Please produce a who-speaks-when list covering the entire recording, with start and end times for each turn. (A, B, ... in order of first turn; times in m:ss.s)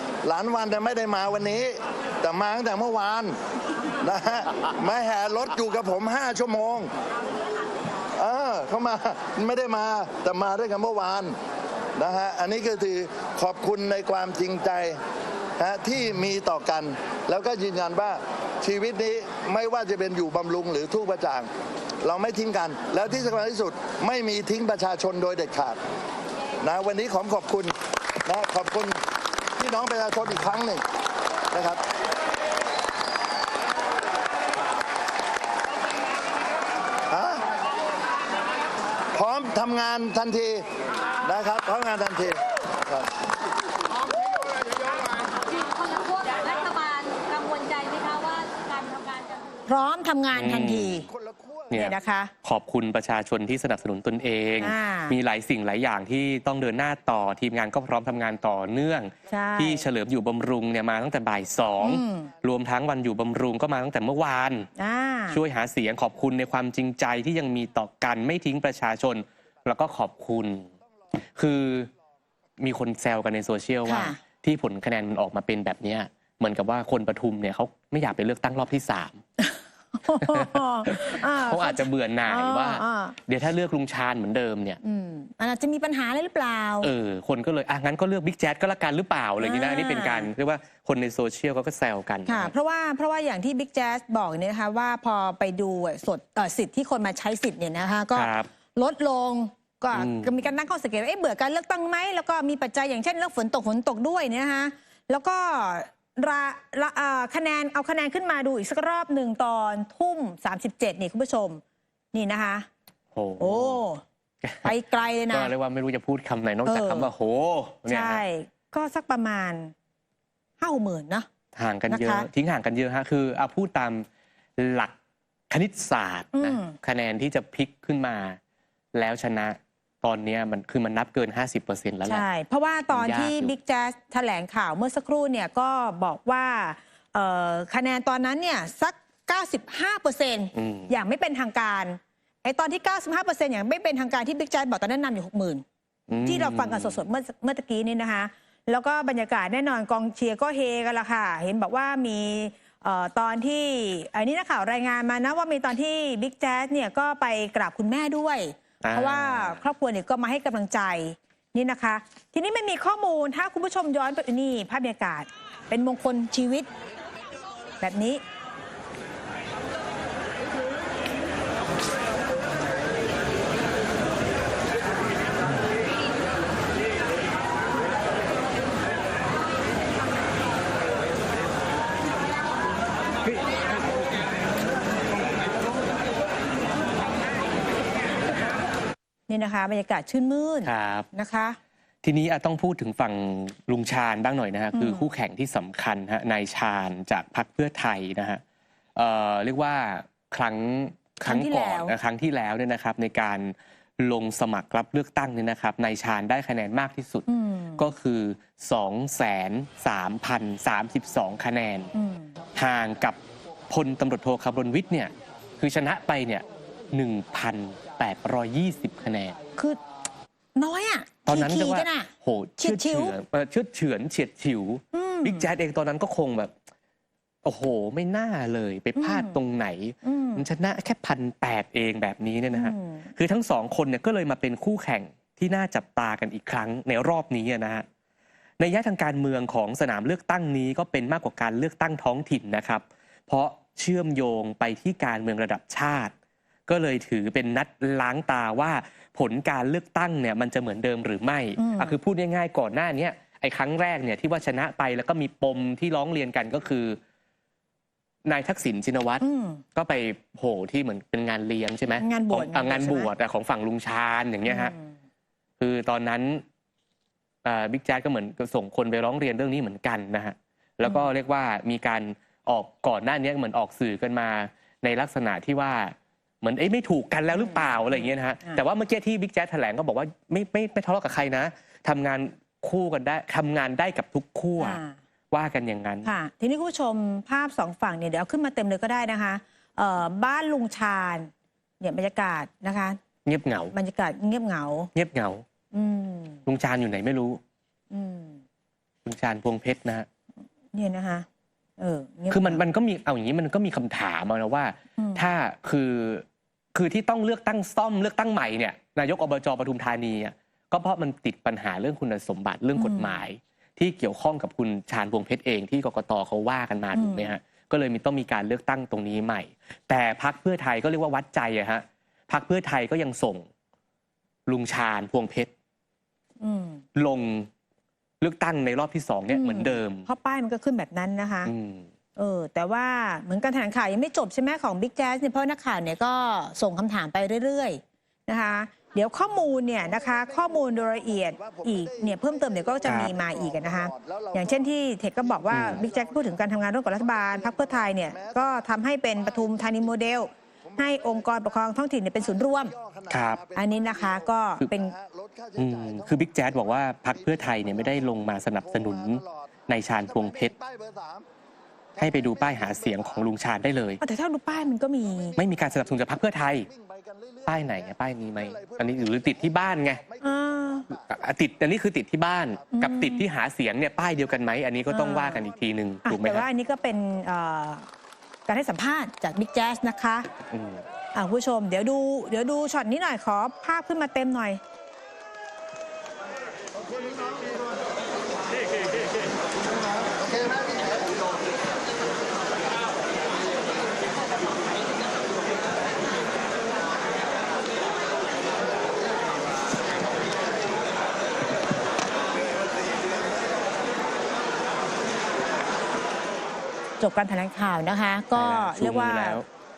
0:00.2-0:03.4 A
0:04.0-0:06.9 A
0:08.2-0:11.4 A
0:12.0-0:15.0 A
0:15.6-0:21.5 A
0:22.0-0:25.8 A
0:26.6-0:29.0 A
0:29.6-0:30.8 A
0:31.5-0:31.8 A
0:37.1-0:37.5 A
0:39.1-0:40.6 A
0:41.2-0:43.1 A
0:45.2-0:49.5 B
0:49.7-0:51.1 C
0:50.3-0:51.1 D
0:51.1-0:51.7 A
0:51.7-1:04.7 D
0:51.7-0:52.3 C
0:54.6-0:55.2 C
0:59.3-0:59.9 C
1:01.8-1:02.3 C
1:04.8-1:05.4 C
1:05.3-1:10.7 D
1:11.4-1:11.9 D
1:12.6-1:19.2 D
1:13.8-1:14.2 C
1:19.4-1:23.2 C
1:20.2-1:24.8 D
1:24.8-1:26.9 C
1:26.8-1:32.5 D
1:29.4-1:30.3 C
1:32.3-1:51.6 C
1:38.1-1:38.5 D
1:39.9-1:40.4 D
1:52.1-1:52.7 C
1:53.1-1:53.8 D
1:53.4-1:54.0 C
1:54.4-1:54.7 D
1:54.6-1:55.5 C
1:55.3-1:58.2 D
1:56.7-1:57.1 C
1:57.9-1:59.7 C
2:00.6-2:01.3 C
2:01.6-2:04.1 D
2:01.9-2:02.3 C
2:04.6-2:04.9 D
2:05.5-2:08.4 D
2:06.4-2:06.8 C
2:08.9-2:12.3 D
2:12.1-2:25.6 C
2:12.9-2:13.5 D
2:20.6-2:20.9 D
2:26.1-2:27.0 D
2:26.2-2:46.7 C
2:38.8-2:39.6 D
2:47.8-2:48.2 C
3:09.3-3:11.6 C
3:10.6-3:11.1 D
3:12.0-3:18.4 D
3:14.7-3:15.1 C
3:19.0-3:27.3 D
3:21.2-3:22.0 C
3:27.3-3:27.9 C
3:27.8-3:31.9 D
3:31.9-3:32.3 C
3:32.6-3:33.2 D
3:33.7-3:39.4 D
3:40.6-3:43.2 C
3:41.3-3:46.5 D
3:44.9-3:45.5 C
3:47.4-3:57.8 D
3:49.0-3:49.4 C
3:50.0-3:50.4 C
3:52.5-3:53.1 C
3:58.6-4:06.1 D
4:06.7-4:17.0 D
4:11.6-4:12.0 C
4:18.2-4:19.2 D
4:19.2-4:19.6 C
4:19.8-4:24.7 D
4:22.0-4:23.1 C
4:24.5-4:25.0 C
4:25.6-4:26.4 D
4:27.4-4:44.8 D
4:37.3-4:38.6 C
4:44.6-4:45.0 C
4:45.3-4:46.1 D
4:46.0-4:51.3 C
4:51.8-4:53.0 C
4:53.3-4:53.7 D
4:53.7-4:54.9 C
4:54.9-4:55.4 D
4:55.7-4:56.4 C
4:56.5-4:57.4 D
4:57.9-4:58.4 C
4:59.0-5:00.1 D
5:00.7-5:01.3 C
5:01.8-5:02.6 C
5:02.3-5:23.5 D
5:05.0-5:05.3 C
5:12.8-5:13.2 C
5:16.9-5:17.4 C
5:24.5-5:25.5 D
5:26.4-5:26.8 C
5:27.0-5:27.5 D
5:28.2-5:30.1 D
5:29.3-5:31.5 C
5:31.5-5:31.9 D
5:32.2-5:52.7 C
5:39.8-5:44.7 A
5:45.2-5:48.6 A
5:45.5-5:45.8 D
5:49.2-5:51.7 A
5:52.2-6:01.3 A
5:53.1-5:53.4 D
5:53.6-5:54.9 C
5:55.6-6:00.5 D
6:02.0-6:03.2 A
6:02.0-6:04.0 D
6:04.0-6:05.4 C
6:05.1-6:05.6 A
6:05.4-6:06.7 D
6:06.7-6:11.1 A
6:07.5-6:10.0 D
6:10.2-6:10.9 C
6:11.1-6:16.4 D
6:12.7-6:13.2 C
6:14.9-6:15.4 C
6:16.0-6:17.9 C
6:18.5-6:20.3 C
6:20.5-6:20.8 D
6:21.2-6:24.6 C
6:30.0-6:31.1 A
6:47.0-6:49.4 C
6:48.4-6:49.5 D